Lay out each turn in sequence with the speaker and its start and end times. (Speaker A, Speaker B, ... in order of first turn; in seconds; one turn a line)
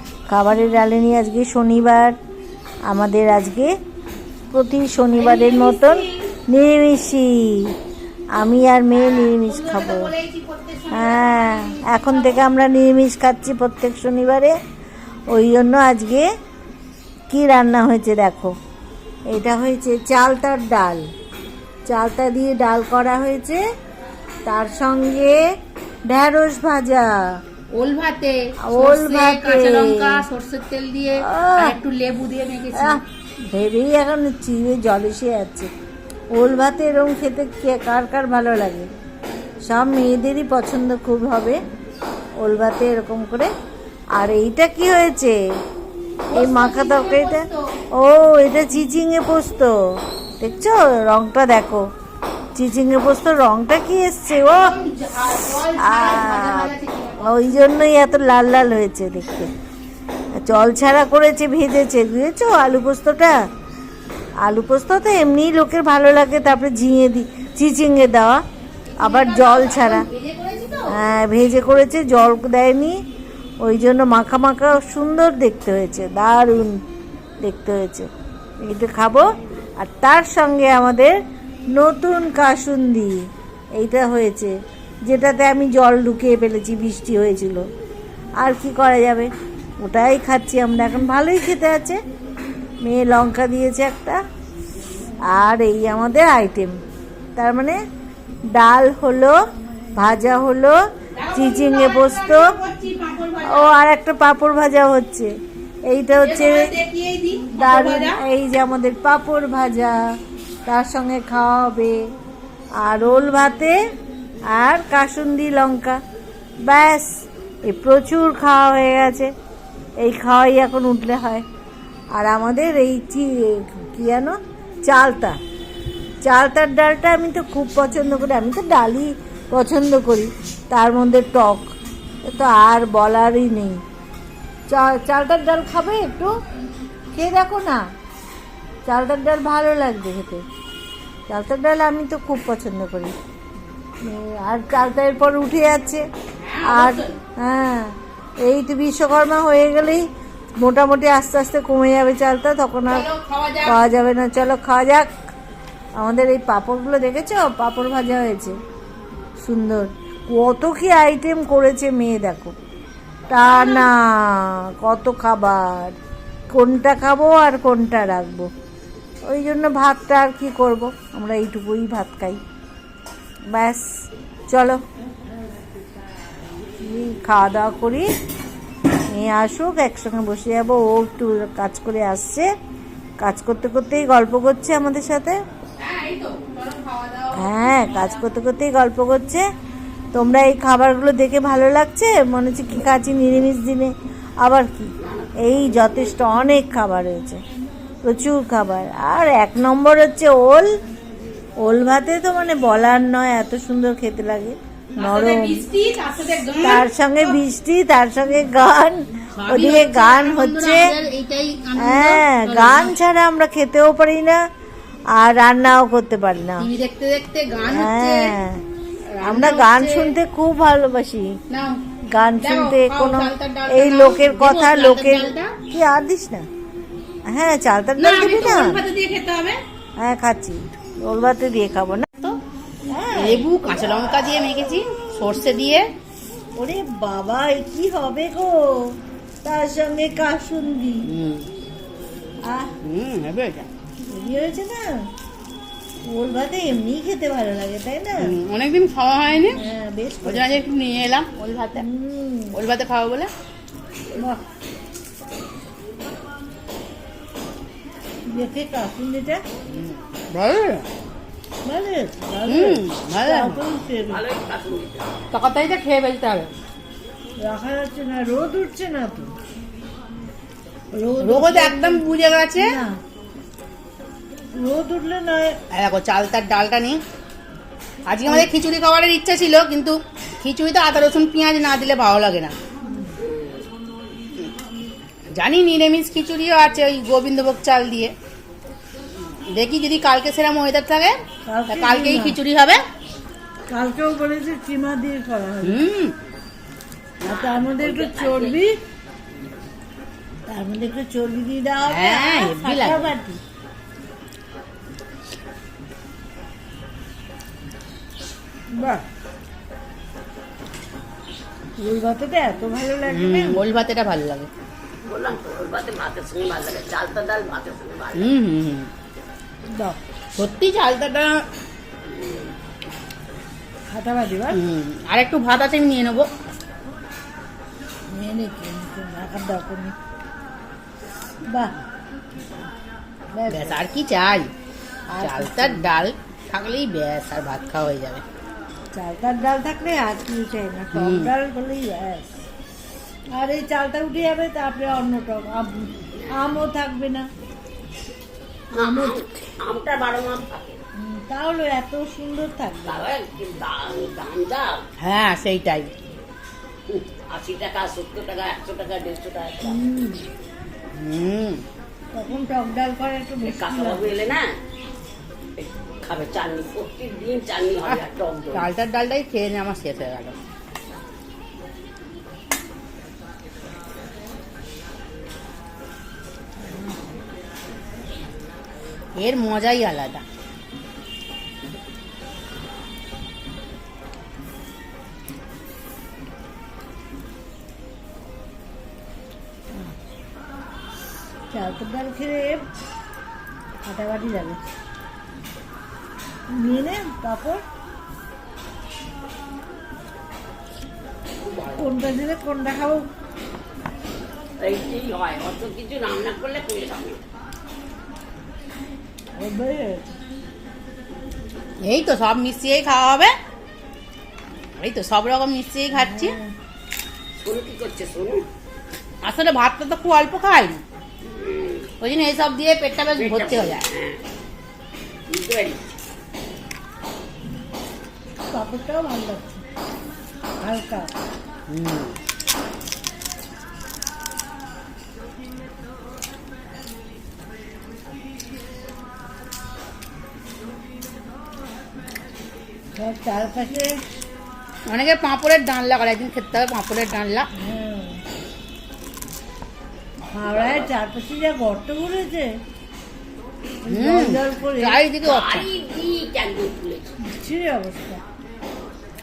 Speaker A: 0.3-2.1
Speaker A: 2.9-3.7
Speaker A: 4.5-7.7
Speaker B: 5.1-6.3
Speaker A: 8.4-10.1
Speaker B: 8.9-12.4
Speaker A: 10.9-14.5
Speaker A: 15.3-16.3
Speaker A: 17.3-18.5
Speaker A: 19.3-21.0
Speaker A: 21.9-23.6
Speaker A: 24.4-25.4
Speaker A: 26.1-27.1
Speaker B: 27.7-33.0
Speaker A: 28.6-30.2
Speaker A: 31.2-31.8
Speaker A: 32.8-35.7
Speaker A: 36.3-38.9
Speaker A: 39.7-41.6
Speaker A: 42.4-43.5
Speaker A: 44.2-45.4
Speaker B: 46.3-47.7
Speaker A: 46.3-49.7
Speaker A: 50.4-51.9
Speaker A: 52.5-54.7
Speaker B: 54.5-57.6
Speaker A: 55.8-59.5
Speaker A: 60.4-63.4
Speaker A: 64.4-68.4
Speaker A: 69.0-70.0
Speaker B: 69.0-71.0
Speaker A: 70.9-73.0
Speaker A: 73.6-76.8
Speaker A: 77.4-78.1
Speaker A: 78.6-81.2
Speaker A: 81.7-83.2
Speaker A: 83.8-84.5
Speaker A: 85.0-87.6
Speaker A: 88.4-92.0
Speaker A: 92.8-94.2
Speaker A: 95.3-96.8
Speaker A: 97.4-97.8
Speaker A: 98.5-99.3
Speaker A: 100.0-100.8
Speaker B: 101.1-103.8
Speaker A: 101.3-102.5
Speaker A: 103.4-105.3
Speaker A: 105.9-106.7
Speaker B: 106.2-108.2
Speaker A: 107.5-110.0
Speaker A: 110.7-112.0
Speaker A: 112.8-113.7
Speaker A: 114.5-116.0
Speaker A: 116.7-117.1
Speaker A: 117.7-119.3
Speaker A: 120.0-121.4
Speaker A: 122.2-125.4
Speaker A: 126.2-131.7
Speaker A: 132.2-133.8
Speaker A: 134.7-136.3
Speaker A: 137.1-137.8
Speaker A: 138.8-140.4
Speaker A: 141.3-143.1
Speaker A: 144.0-146.0
Speaker B: 146.4-147.2
Speaker A: 146.6-150.0
Speaker A: 150.6-153.1
Speaker B: 152.9-153.8
Speaker A: 153.6-155.1
Speaker A: 156.0-158.6
Speaker A: 159.4-162.5
Speaker A: 163.3-165.9
Speaker B: 163.4-163.9
Speaker A: 166.5-168.5
Speaker A: 169.2-172.4
Speaker A: 173.5-173.8
Speaker A: 174.5-174.8
Speaker A: 176.8-178.1
Speaker A: 179.1-182.5
Speaker A: 183.2-185.4
Speaker B: 185.8-188.2
Speaker A: 187.3-189.4
Speaker A: 190.1-197.4
Speaker C: 195.0-195.7
Speaker A: 198.0-200.7
Speaker A: 201.6-205.7
Speaker B: 204.9-207.3
Speaker A: 206.6-210.9
Speaker B: 209.3-213.0
Speaker A: 211.8-214.4
Speaker A: 215.1-216.7
Speaker B: 216.6-218.3
Speaker A: 217.7-218.6
Speaker B: 219.1-220.1
Speaker A: 219.2-221.3
Speaker B: 221.5-221.8
Speaker A: 222.1-226.4
Speaker B: 222.4-225.6
Speaker A: 227.3-228.8
Speaker B: 228.0-229.6
Speaker A: 230.0-232.1
Speaker B: 232.1-232.4
Speaker A: 232.9-233.5
Speaker B: 233.1-235.9
Speaker A: 236.6-241.1
Speaker B: 241.1-241.5
Speaker A: 242.4-242.7
Speaker B: 242.8-243.7
Speaker A: 244.1-245.1
Speaker A: 246.1-248.3
Speaker B: 248.2-249.6
Speaker A: 249.5-250.6
Speaker B: 250.2-251.8
Speaker A: 251.8-252.6
Speaker B: 252.5-253.3
Speaker A: 254.1-254.4
Speaker A: 258.3-259.4
Speaker B: 259.7-260.9
Speaker A: 261.6-264.2
Speaker B: 262.4-263.6
Speaker C: 264.1-265.2
Speaker B: 265.3-266.5
Speaker A: 267.4-269.3
Speaker A: 270.9-272.9
Speaker B: 271.2-272.8
Speaker A: 274.6-275.6
Speaker B: 275.7-277.0
Speaker B: 278.1-282.5
Speaker A: 282.9-283.1
Speaker C: 283.2-283.6
Speaker B: 285.4-288.1
Speaker B: 289.3-292.8
Speaker A: 291.4-292.4
Speaker A: 293.7-295.8
Speaker B: 295.6-296.1
Speaker C: 297.2-298.6
Speaker A: 297.2-298.8
Speaker A: 300.5-303.4
Speaker B: 301.9-303.1
Speaker A: 311.8-313.6
Speaker B: 313.0-314.5
Speaker C: 315.0-318.4
Speaker B: 318.1-318.9
Speaker B: 320.4-321.4
Speaker C: 322.1-322.5
Speaker A: 323.9-324.6
Speaker B: 324.5-326.3
Speaker A: 328.1-329.9
Speaker A: 331.5-331.8
Speaker A: 333.3-333.8
Speaker B: 333.5-334.5
Speaker A: 335.1-335.9
Speaker B: 335.2-338.2
Speaker A: 338.9-342.3
Speaker B: 340.9-341.3
Speaker A: 343.3-347.3
Speaker C: 348.7-350.8
Speaker A: 348.7-349.2
Speaker A: 351.0-353.1
Speaker C: 352.8-354.8
Speaker B: 355.0-355.9
Speaker C: 356.9-359.8
Speaker A: 359.6-360.3
Speaker B: 360.9-361.6
Speaker A: 362.1-364.2
Speaker C: 363.4-364.5
Speaker C: 365.6-368.7
Speaker B: 368.5-370.3
Speaker B: 379.2-380.2
Speaker A: 391.5-392.6
Speaker A: 393.8-394.6
Speaker A: 396.5-397.6
Speaker C: 401.5-401.7
Speaker A: 401.7-403.0
Speaker C: 404.6-407.2
Speaker A: 409.4-410.1
Speaker B: 411.8-413.3
Speaker B: 414.8-416.3
Speaker A: 415.9-416.5
Speaker C: 417.4-418.4
Speaker B: 419.2-420.8
Speaker C: 421.2-421.9
Speaker B: 422.0-423.9
Speaker C: 423.1-424.2
Speaker C: 425.3-425.8
Speaker A: 428.5-429.6
Speaker A: 430.6-431.1
Speaker B: 431.7-432.1
Speaker A: 443.0-444.0
Speaker B: 444.9-447.5
Speaker A: 447.6-448.2
Speaker A: 450.3-452.5
Speaker C: 450.4-450.9
Speaker A: 453.8-455.0
Speaker B: 453.9-455.7
Speaker C: 455.2-457.1
Speaker A: 457.2-458.2